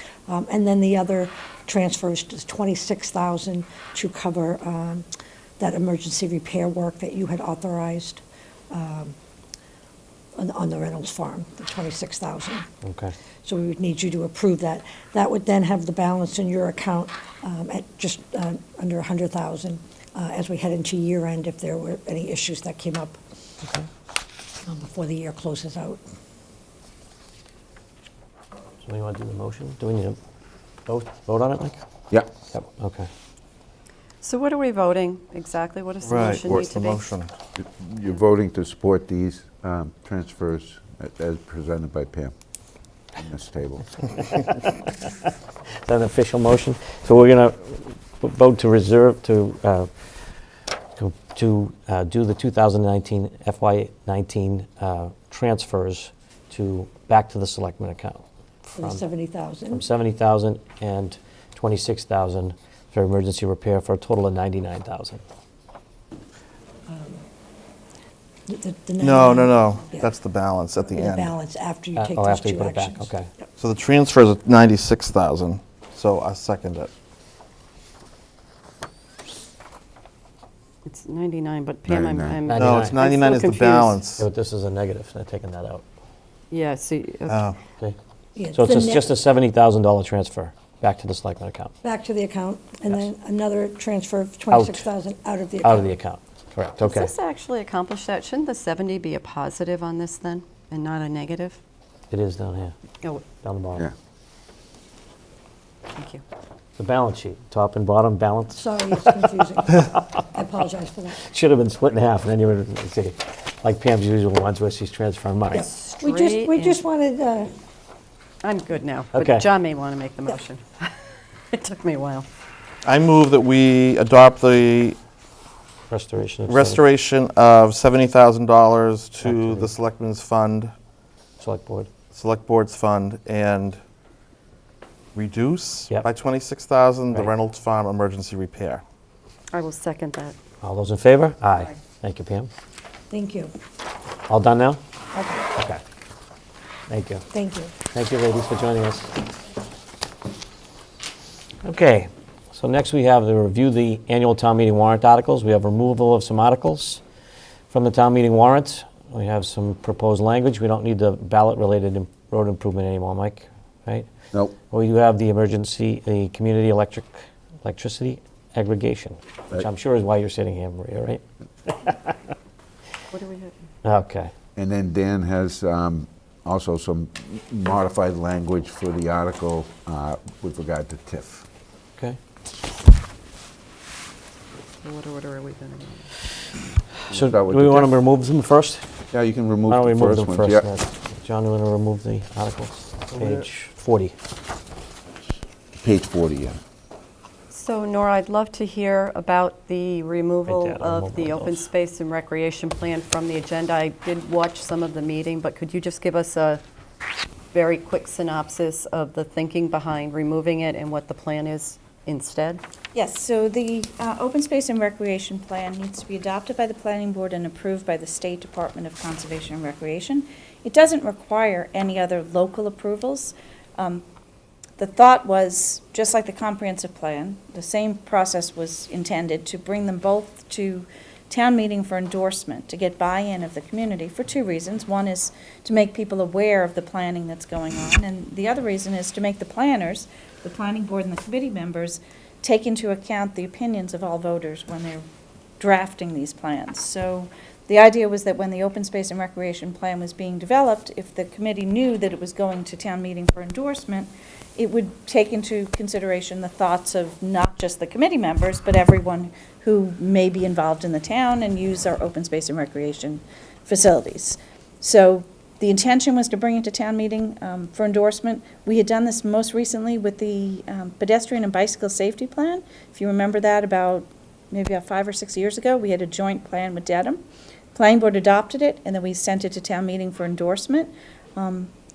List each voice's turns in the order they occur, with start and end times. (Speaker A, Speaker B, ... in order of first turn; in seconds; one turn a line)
Speaker A: 0.3-5.1
Speaker A: 5.6-9.2
Speaker A: 10.3-12.7
Speaker B: 12.8-13.1
Speaker A: 13.4-23.2
Speaker A: 24.7-26.0
Speaker B: 28.9-30.2
Speaker B: 30.9-31.8
Speaker B: 32.5-33.1
Speaker C: 34.2-37.1
Speaker D: 36.0-37.3
Speaker E: 36.4-36.7
Speaker E: 37.6-42.3
Speaker E: 43.2-44.0
Speaker B: 44.6-45.3
Speaker B: 45.9-49.9
Speaker B: 51.0-59.0
Speaker A: 58.8-59.9
Speaker B: 59.7-65.2
Speaker A: 66.9-67.2
Speaker A: 68.5-70.1
Speaker D: 69.0-71.3
Speaker A: 70.8-73.5
Speaker B: 72.0-73.3
Speaker D: 73.6-76.9
Speaker C: 80.9-84.0
Speaker E: 81.9-82.4
Speaker B: 82.5-83.0
Speaker D: 82.5-84.2
Speaker B: 84.2-85.8
Speaker C: 86.5-87.5
Speaker D: 87.3-87.6
Speaker A: 88.4-89.2
Speaker B: 88.5-91.7
Speaker A: 91.8-95.9
Speaker B: 94.5-94.9
Speaker B: 95.6-97.1
Speaker C: 96.8-101.6
Speaker B: 102.1-102.7
Speaker B: 103.4-103.9
Speaker C: 106.0-106.2
Speaker B: 106.8-109.9
Speaker A: 108.5-111.2
Speaker B: 111.2-115.7
Speaker A: 115.5-117.5
Speaker C: 116.0-116.8
Speaker C: 118.4-121.0
Speaker B: 119.1-119.5
Speaker C: 121.5-122.3
Speaker D: 122.8-125.0
Speaker B: 125.9-126.8
Speaker D: 126.5-130.7
Speaker B: 129.2-129.7
Speaker B: 131.4-131.9
Speaker D: 132.1-133.8
Speaker D: 135.2-138.8
Speaker C: 139.5-140.4
Speaker B: 140.6-142.5
Speaker A: 143.1-143.5
Speaker B: 144.3-144.8
Speaker A: 145.1-145.5
Speaker B: 146.9-147.2
Speaker A: 147.3-147.7
Speaker B: 147.8-149.1
Speaker B: 151.6-157.0
Speaker B: 157.7-172.2
Speaker C: 173.1-173.5
Speaker B: 173.8-174.3
Speaker E: 174.6-181.5
Speaker C: 184.8-186.1
Speaker E: 187.1-187.9
Speaker B: 187.1-189.0
Speaker E: 189.1-190.7
Speaker B: 189.7-194.2
Speaker E: 195.8-196.6
Speaker C: 197.5-206.6
Speaker B: 200.5-201.7
Speaker C: 207.5-212.6
Speaker F: 212.9-224.0
Speaker F: 224.8-245.0
Speaker F: 245.6-277.2
Speaker F: 277.8-281.7